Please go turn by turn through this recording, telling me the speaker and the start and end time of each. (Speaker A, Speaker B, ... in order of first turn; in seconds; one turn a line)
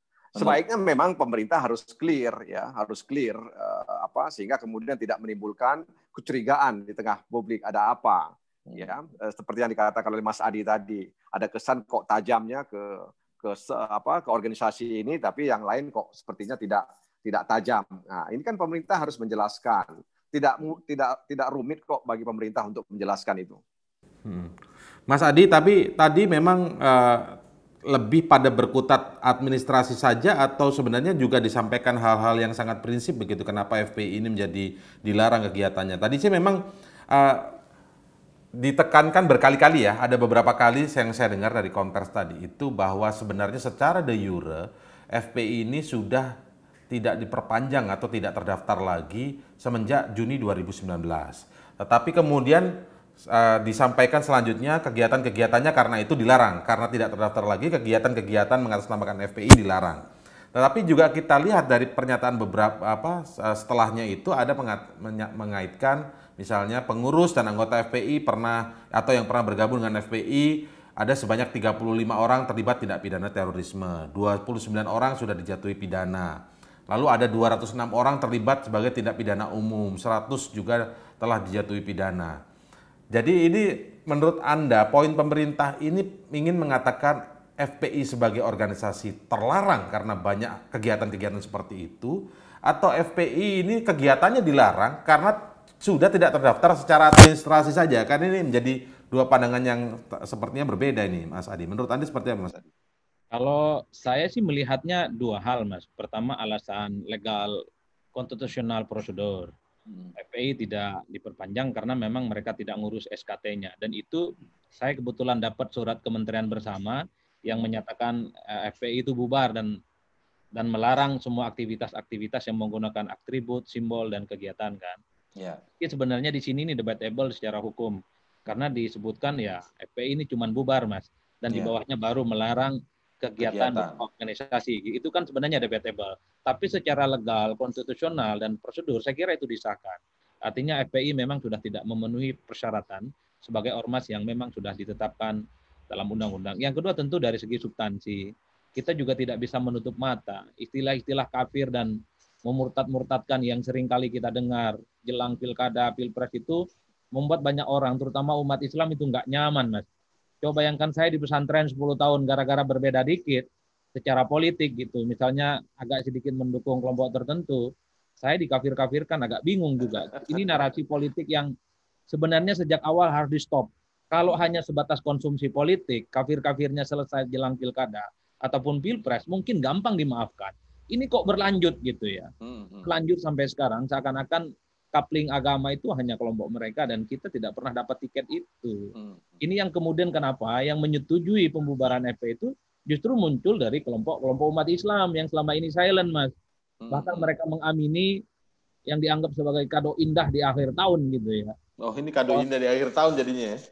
Speaker A: 0.3-23.6
Speaker B: 8.7-8.9
Speaker B: 24.2-24.5
Speaker B: 25.1-27.4
Speaker B: 27.9-36.6
Speaker B: 37.1-37.5
Speaker B: 38.6-46.3
Speaker B: 46.9-52.7
Speaker B: 53.3-76.4
Speaker B: 76.9-82.4
Speaker B: 83.1-102.7
Speaker C: 103.3-107.5
Speaker C: 108.2-109.5
Speaker C: 110.2-114.2
Speaker C: 114.8-119.8
Speaker C: 120.5-125.0
Speaker C: 125.8-145.4
Speaker B: 133.4-134.0
Speaker C: 145.9-148.2
Speaker C: 148.8-156.6
Speaker C: 157.1-159.8
Speaker C: 160.4-167.7
Speaker C: 168.2-171.5
Speaker C: 172.1-182.3
Speaker B: 182.4-182.9
Speaker C: 182.8-188.9
Speaker B: 188.9-189.4
Speaker C: 189.4-196.3
Speaker B: 196.8-197.3
Speaker C: 196.9-198.1
Speaker C: 198.9-201.5
Speaker B: 201.8-203.6